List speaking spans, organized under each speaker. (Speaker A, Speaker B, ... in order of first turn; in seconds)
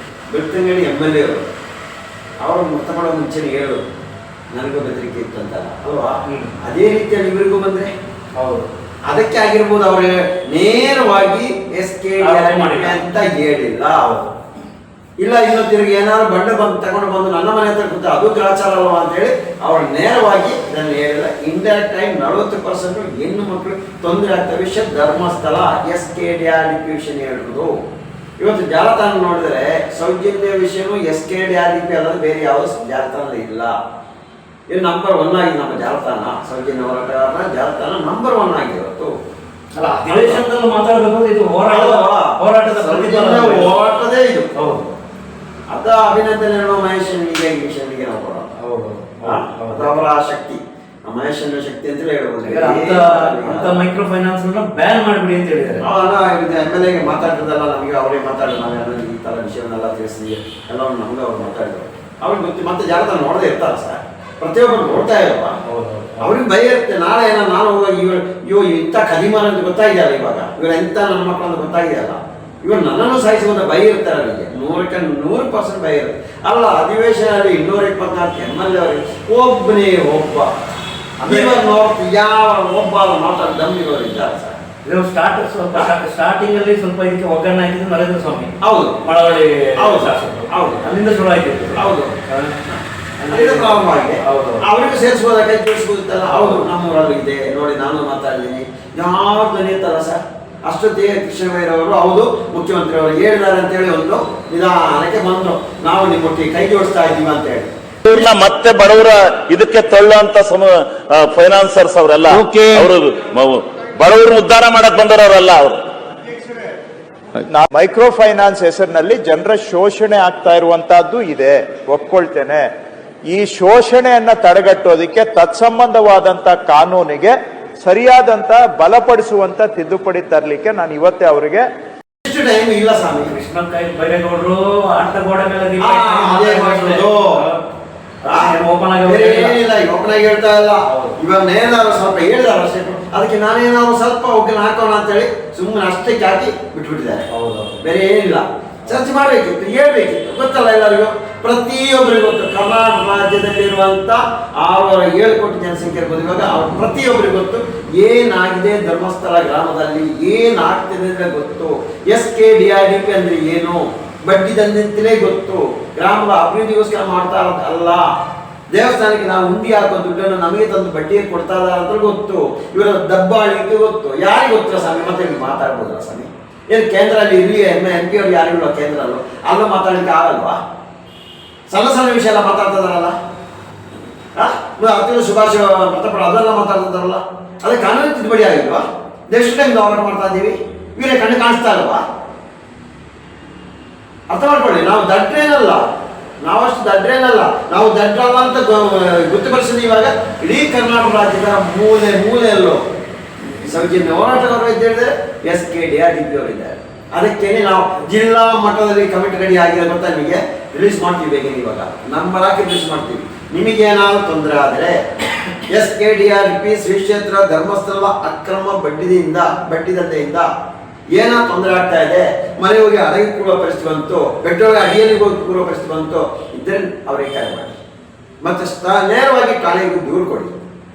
Speaker A: 0.3-1.4, 2.4-3.8, 4.5-7.9, 9.1-14.1, 15.2-27.8, 28.4-33.7, 34.7-39.1, 40.1-40.4, 41.7-44.5, 45.7-48.5, 49.2-53.7, 55.8-65.5, 66.2-80.5, 81.2-84.6, 88.6-89.0, 89.8-90.8, 91.8-92.1, 92.7-108.3, 132.2-133.3, 135.8-137.3, 138.2-138.5, 139.0-147.2, 147.8-168.0, 168.7-180.6, 181.7-183.1, 184.3-192.0, 194.3-195.8, 196.4-202.8, 203.6-215.0, 215.7-220.5, 221.1-227.8, 228.4-230.6
Speaker B: 6.3-6.5, 8.4-8.7, 12.2-13.0, 14.0-14.3, 39.8-43.7, 44.5-44.9, 48.6-50.0, 52.5-55.8, 65.6-66.3, 81.2-81.5, 84.8-88.5, 89.0-92.5, 93.2-94.6, 96.3-96.6, 133.3-137.6, 138.2-139.6, 140.9-141.2, 147.3-147.8
Speaker C: 108.0-115.8
Speaker D: 112.3-112.9, 117.4-122.7, 123.3-131.6